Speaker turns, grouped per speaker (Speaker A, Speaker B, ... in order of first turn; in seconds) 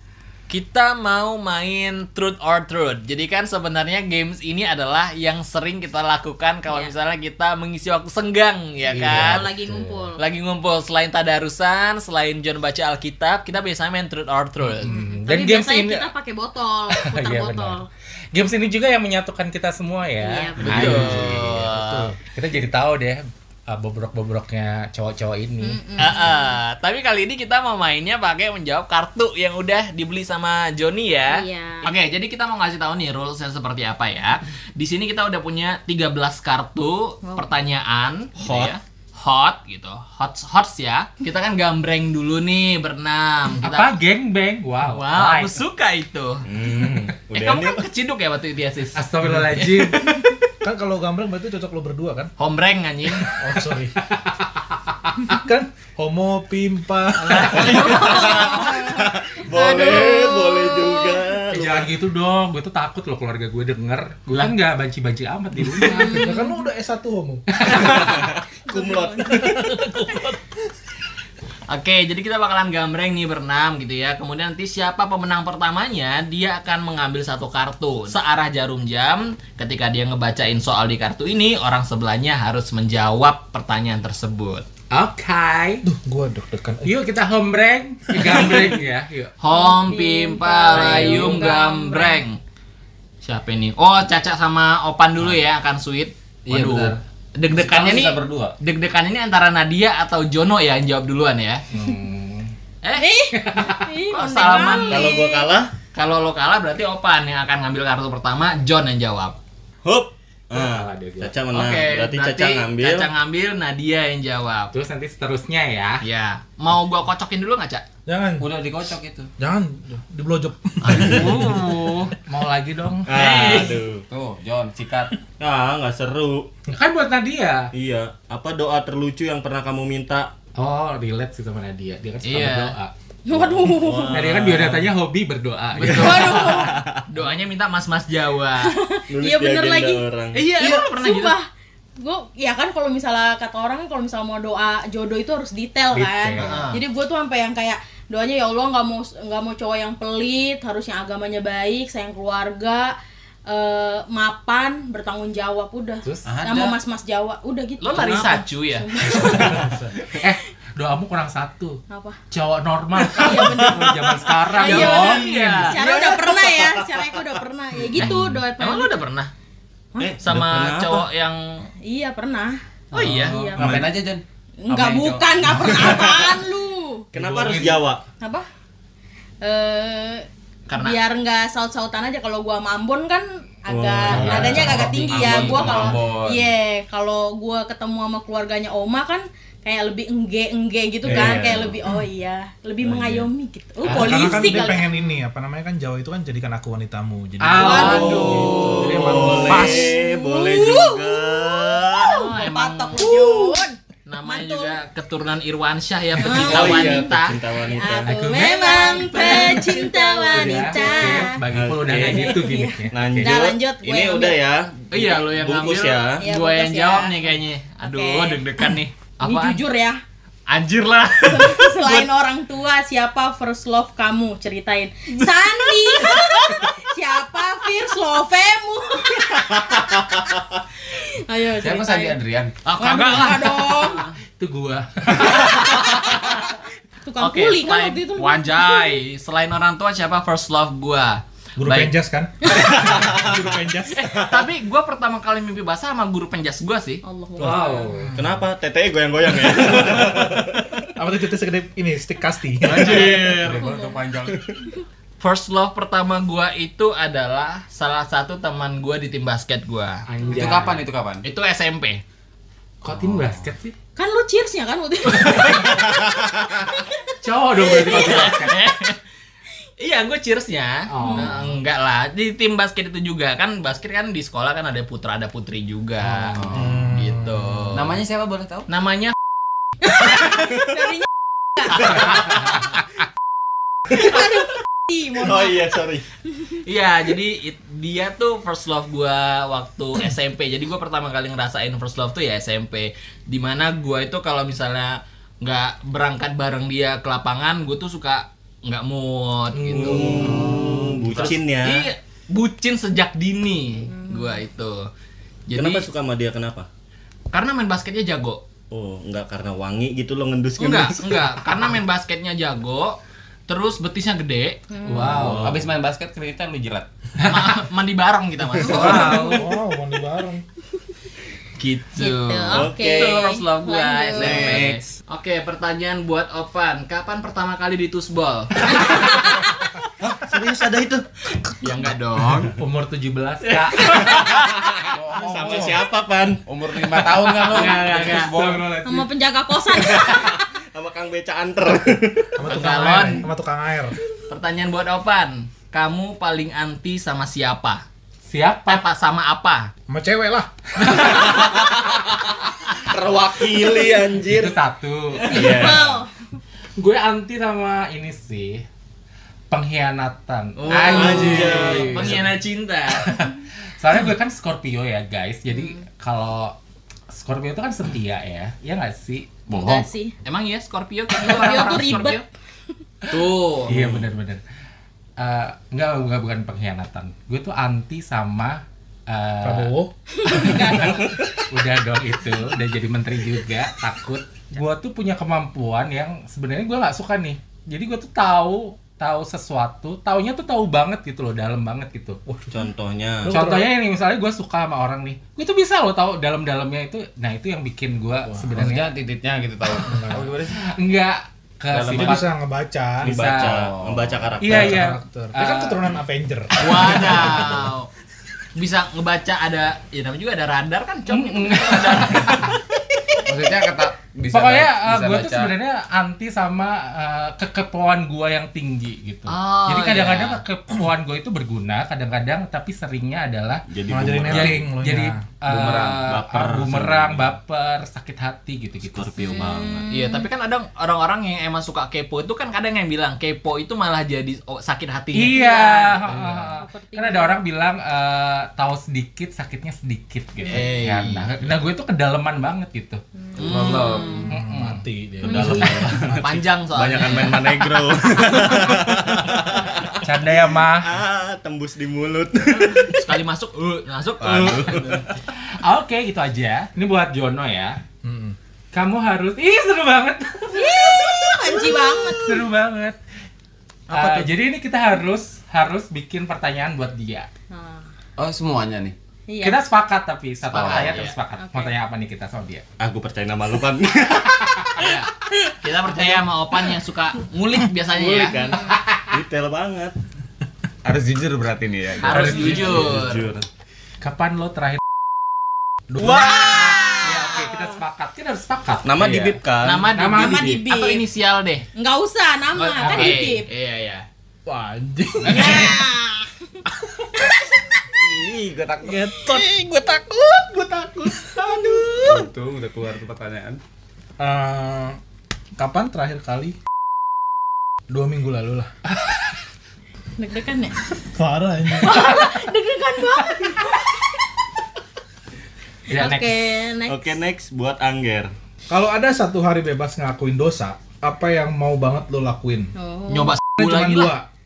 Speaker A: 0.5-9.5, 10.2-15.0, 20.6-22.1, 26.0-43.9, 44.9-46.5, 47.3-49.0, 49.6-49.9, 52.4-53.3, 57.2-58.3, 71.7-84.7, 89.4-92.4, 93.2-101.6, 102.8-103.1, 104.1-105.2, 105.9-109.4, 111.5-114.7, 116.0-117.8, 120.9-122.1, 123.1-123.8, 132.2-132.8, 135.8-138.8, 140.3-141.4, 146.4-146.8, 157.8-158.9, 164.5-166.4, 168.6-169.3, 170.2-171.7, 172.9-173.4, 180.7-181.0, 193.8-194.8, 197.6-199.7, 202.1-203.3, 204.1-207.4, 208.4-211.3, 214.9-219.6, 220.5-222.1, 225.2-226.2, 232.7-234.0, 235.3-236.4, 237.2-241.9, 243.9-247.0, 255.2-260.1, 261.2-262.0, 267.7-269.0, 269.8-278.0, 278.7-279.1, 286.6-304.9, 305.5-305.9, 307.3-308.4, 310.6-314.6, 317.2-319.4, 321.6-329.2, 331.6-332.5, 333.4-334.4, 337.3-338.3, 342.4-343.3, 344.3-347.8, 348.7-349.7, 360.6-363.1, 370.2-372.2, 373.1-373.8, 406.6-407.9, 408.6-412.5, 419.3-420.4, 429.9-436.4, 440.5-441.4, 443.4-444.1, 445.8-447.8, 452.5-455.1, 463.9-464.2, 470.5-471.1, 474.8-478.4, 482.0-483.3, 489.6-491.7, 492.6-494.1, 499.3-501.7, 523.1-524.1
Speaker B: 8.9-10.1, 14.6-16.1, 16.9-21.7, 22.3-25.8, 43.6-45.6, 49.0-50.2, 54.0-55.3, 61.5-66.3, 67.5-68.3, 84.9-85.8, 86.8-89.3, 90.8-91.4, 101.7-102.5, 103.3-103.9, 110.5-111.3, 114.7-116.0, 122.3-123.6, 126.7-127.7, 130.6-132.9, 134.1-136.5, 145.9-146.7, 156.1-156.3, 160.1-161.8, 162.3-165.8, 168.0-168.4, 177.2-177.8, 197.4-199.9, 208.1-209.7, 210.3-213.4, 234.3-236.2, 247.4-248.2, 260.1-260.8, 262.8-263.7, 265.2-265.9, 267.2-268.7, 270.9-271.5, 276.1-276.4, 282.1-282.6, 299.6-300.6, 314.9-315.6, 317.2-317.5, 318.6-319.5, 332.5-334.4, 337.9-339.1, 348.3-348.8, 350.8-351.2, 354.2-355.9, 356.8-358.6, 359.5-362.3, 363.0-366.6, 367.1-369.4, 373.1-374.4, 375.2-379.8, 380.3-392.2, 393.3-398.9, 400.5-402.3, 403.1-403.6, 404.4-405.8, 411.1-412.6, 414.3-423.6, 424.3-429.4, 435.1-443.0, 444.3-446.0, 450.0-451.0, 455.5-457.8, 458.7-463.0, 463.9-467.3, 469.4-472.6, 482.1-482.8, 484.0-484.8, 486.1-489.0, 489.9-490.6, 492.8-493.2, 508.9-509.2, 511.9-512.3, 515.9-516.3
Speaker C: 8.9-10.2, 14.8-17.9, 20.2-20.9, 25.6-26.5, 31.3-31.9, 37.2-37.5, 57.6-61.2, 65.8-66.6, 68.7-70.2, 89.5-92.2, 103.0-105.5, 133.3-134.2, 135.9-136.8, 138.6-141.5, 142.0-152.9, 153.5-160.2, 161.9-162.2, 163.1-169.0, 171.8-172.6, 173.2-173.8, 174.7-177.1, 178.2-178.5, 179.4-180.3, 180.8-195.1, 197.6-198.4, 199.5-204.8, 206.2-207.2, 207.7-211.4, 212.0-214.4, 216.2-217.2, 217.8-218.7, 219.2-220.0, 221.2-229.4, 230.9-232.2, 232.8-234.0, 237.1-239.0, 247.0-247.9, 253.4-254.0, 264.0-265.8, 271.0-271.3, 279.9-282.1, 283.9-285.8, 303.9-304.4, 314.7-315.2, 322.0-324.6, 338.8-340.5, 355.2-356.1, 369.5-370.1, 371.2-372.2, 380.2-381.1, 429.2-430.3, 435.3-437.4, 443.4-444.3, 445.2-445.8, 460.5-462.4, 467.5-467.9, 469.3-469.6, 471.4-471.7, 486.3-487.6, 490.1-491.0, 491.8-493.5, 495.3-496.6, 510.2-510.8, 511.8-514.0, 515.9-517.2, 522.8-523.4
Speaker D: 20.6-21.3, 96.5-98.6, 118.4-119.3, 124.1-125.1, 156.2-156.8, 172.9-175.9, 184.2-186.5, 231.6-232.6, 252.7-254.5, 260.3-261.3, 262.9-263.4, 276.4-277.0, 277.7-278.7, 300.3-300.9, 315.2-316.9, 318.8-319.2, 324.2-324.7, 334.8-335.8, 336.4-338.7, 369.5-369.9, 398.5-400.6, 401.7-402.2, 403.1-404.6, 413.2-415.5, 425.5-426.0, 443.4-444.2, 468.2-469.0, 480.8-482.7, 489.0-489.4, 497.9-499.2, 502.0-503.6
Speaker E: 20.8-22.2, 49.2-49.5, 50.6-52.3, 53.2-54.0, 55.2-58.0, 66.0-67.5, 85.8-87.0, 118.1-118.5, 119.4-121.6, 159.2-159.9, 184.3-184.9, 193.9-199.5, 241.6-244.1, 249.6-250.4, 251.0-253.3, 276.5-277.7, 318.7-320.4, 335.3-335.8, 342.4-344.0, 349.9-350.5, 379.4-379.9, 392.3-392.7, 393.2-393.7, 399.9-400.2, 401.8-403.1, 404.5-407.7, 423.9-425.3, 444.3-446.4, 458.0-458.4, 494.5-495.8, 504.2-505.0, 505.6-506.6, 507.9-508.7, 511.0-512.1, 518.7-522.7, 523.6-524.3
Speaker F: 38.4-38.7, 46.5-47.9, 57.4-61.9, 67.7-69.8, 104.8-105.8, 109.8-113.1, 120.9-121.4, 123.1-124.0, 125.4-126.5, 127.7-130.3, 133.3-134.9, 135.9-137.0, 139.1-140.5, 166.0-167.3, 170.0-171.1, 173.6-173.9, 175.7-175.9, 177.1-178.0, 183.7-185.9, 191.1-191.8, 192.8-193.2, 197.9-202.2, 206.4-208.2, 211.5-212.4, 212.9-216.2, 248.1-250.8, 252.6-253.7, 285.2-286.1, 299.7-301.9, 305.6-306.7, 308.7-311.3, 315.1-315.7, 322.5-323.3, 324.2-324.9, 330.0-331.2, 334.0-336.4, 339.9-342.4, 351.3-352.0, 352.8-354.6, 355.2-355.9, 360.6-362.3, 373.7-374.1, 392.5-393.4, 403.0-404.9, 423.7-424.7, 425.6-427.3, 428.8-430.0, 445.3-453.1, 454.2-455.2, 462.0-462.4, 470.6-471.0, 472.8-475.0, 477.9-480.0, 482.2-483.5, 486.0-487.1, 488.8-489.9, 516.9-518.3